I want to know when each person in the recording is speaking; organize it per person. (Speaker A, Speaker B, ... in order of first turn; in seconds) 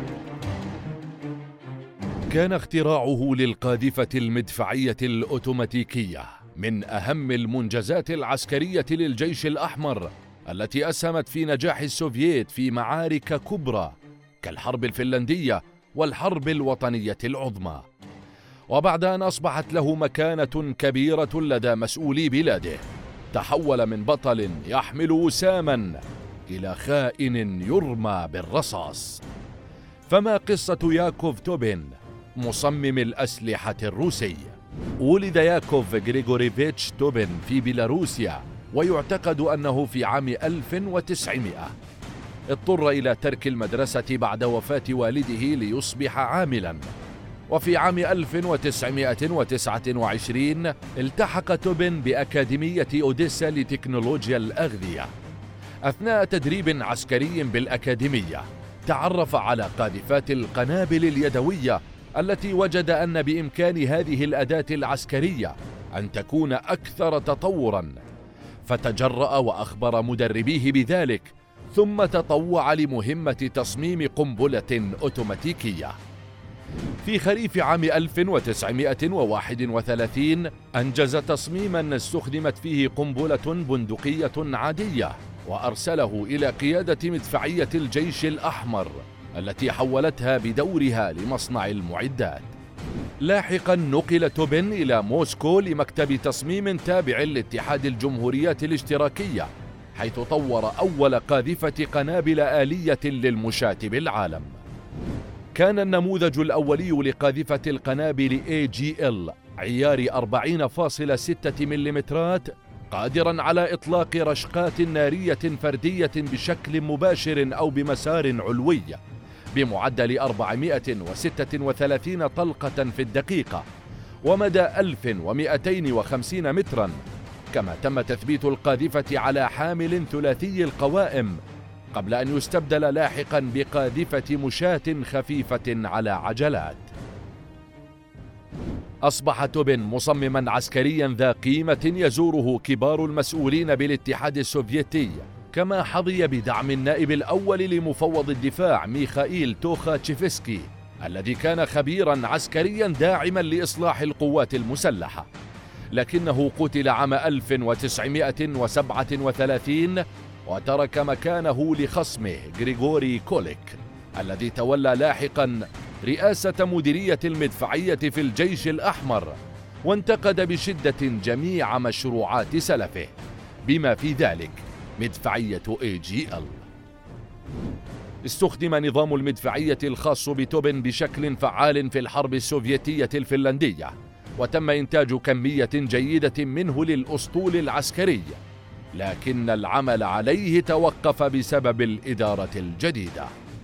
Speaker A: 2.3-17.9, 18.7-29.2, 30.1-41.8, 42.5-46.9, 47.5-55.1, 55.9-68.0, 68.7-76.0, 77.0-92.5, 93.2-104.6, 105.5-119.0, 119.5-123.7, 124.2-131.4, 131.9-136.9, 139.0-155.3, 155.9-176.7, 178.2-188.4, 188.9-193.3